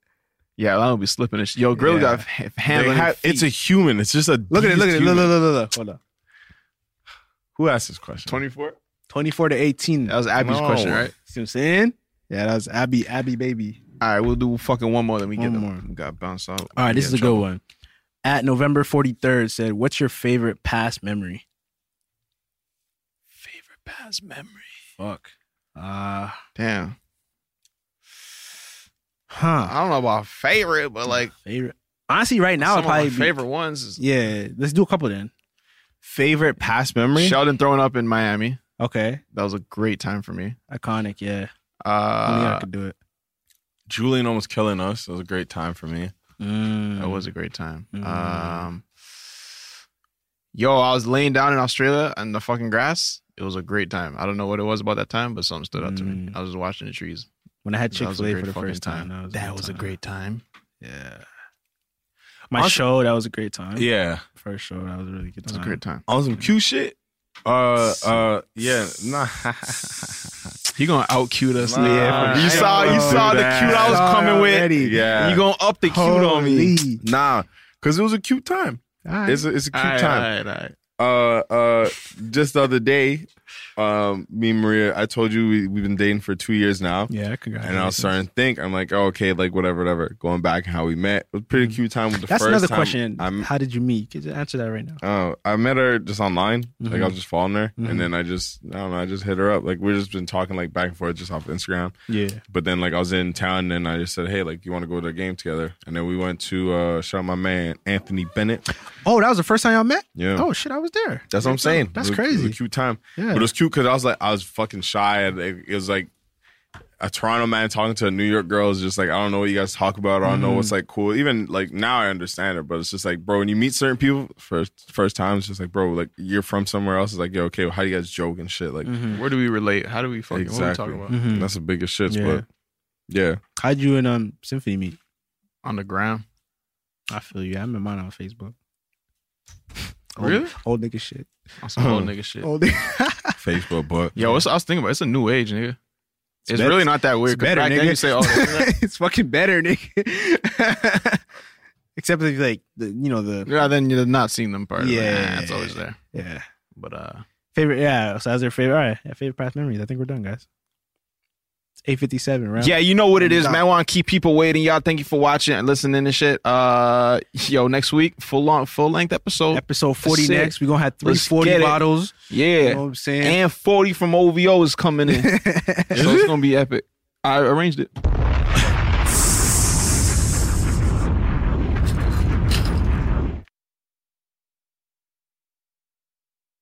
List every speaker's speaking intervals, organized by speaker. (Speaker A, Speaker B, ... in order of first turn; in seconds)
Speaker A: 0.6-3.5, 8.2-8.8, 10.1-11.1, 14.0-17.4, 23.4-24.7, 26.6-26.9, 29.6-31.3, 32.6-34.0, 37.1-38.6, 39.3-40.5, 41.8-42.6, 47.0-48.8, 50.5-57.3, 57.9-60.4, 65.5-66.0, 70.7-76.8, 79.7-80.8, 129.1-131.1, 135.6-136.2, 140.2-140.5, 141.6-142.5, 144.2-145.8, 146.5-148.7, 153.4-156.0, 156.7-157.2, 162.6-175.4, 175.9-177.9
Speaker B: 1.8-2.2, 4.5-6.0, 9.1-10.2, 11.2-13.8, 15.4-15.8, 16.8-17.6, 18.2-21.4, 25.0-26.4, 29.3-29.7, 31.3-33.4, 34.0-35.3, 36.0-36.6, 38.8-39.2, 40.7-41.5, 42.2-43.0, 46.4-47.2, 47.9-48.7, 55.7-56.4, 57.6-60.0, 60.8-61.2, 62.5-65.8, 71.7-75.0, 75.8-77.0, 79.0-79.5, 87.1-88.2, 92.3-95.0, 96.8-97.1, 97.8-98.1, 102.1-102.4, 108.9-112.6, 113.2-113.5, 120.2-120.7, 128.8-129.2, 131.1-131.5, 132.1-132.4, 133.6-135.0, 137.1-138.5, 140.2-141.3, 142.4-143.4, 146.5-151.2, 151.9-153.5, 154.8-156.4, 157.5-160.4, 161.8-163.6, 169.5-173.4, 175.1-176.2
Speaker C: 2.7-5.3, 7.5-8.4, 10.4-11.1, 36.6-37.4, 43.9-46.1, 62.5-62.8, 63.7-64.2, 66.1-70.5, 71.6-74.1, 74.7-75.4, 77.0-80.3, 81.0-93.5, 95.0-101.9, 102.5-108.7, 110.2-110.5, 111.3-116.1, 117.0-129.0, 130.3-132.4, 133.1-133.4, 141.8-142.1, 143.4-144.2, 175.9-176.3